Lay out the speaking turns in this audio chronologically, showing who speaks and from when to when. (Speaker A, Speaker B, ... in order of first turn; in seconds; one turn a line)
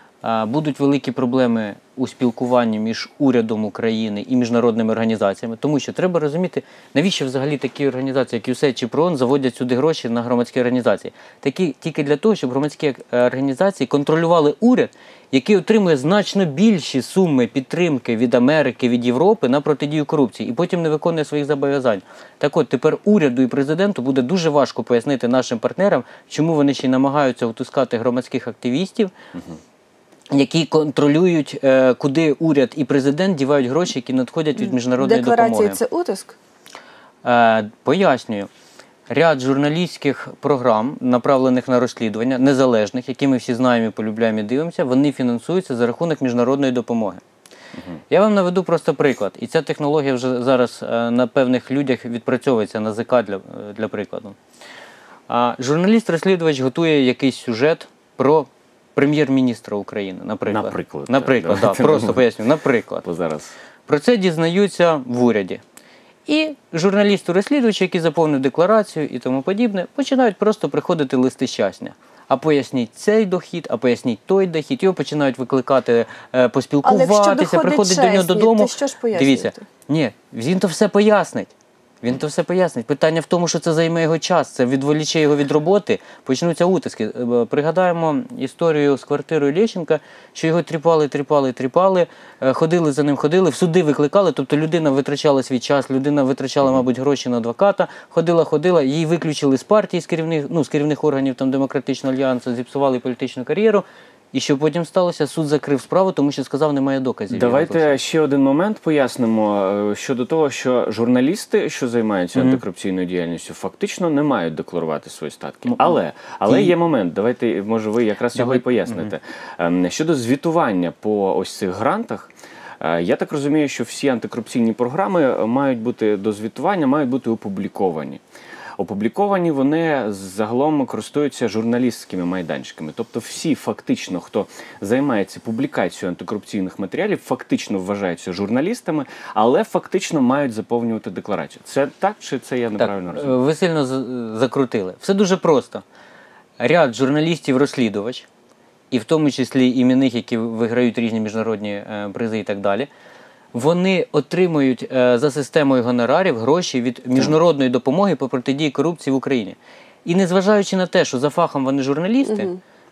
Speaker A: 0.2-29.1
Speaker A: 30.3-35.8
Speaker B: 34.6-36.4
Speaker A: 37.2-38.5
Speaker A: 39.1-47.2
Speaker A: 48.1-54.4
Speaker A: 55.3-63.0
Speaker C: 60.5-62.2
Speaker C: 63.0-63.5
Speaker A: 63.9-65.6
Speaker A: 66.3-81.5
Speaker B: 76.8-79.7
Speaker A: 82.0-108.0
Speaker C: 107.3-128.2
Speaker A: 112.4-112.6
Speaker A: 115.7-115.9
Speaker A: 116.5-116.7
Speaker A: 118.3-119.1
Speaker C: 128.8-143.4
Speaker A: 142.8-145.8
Speaker A: 146.6-148.3
Speaker A: 148.9-152.9
Speaker A: 153.5-162.5
Speaker B: 162.2-162.6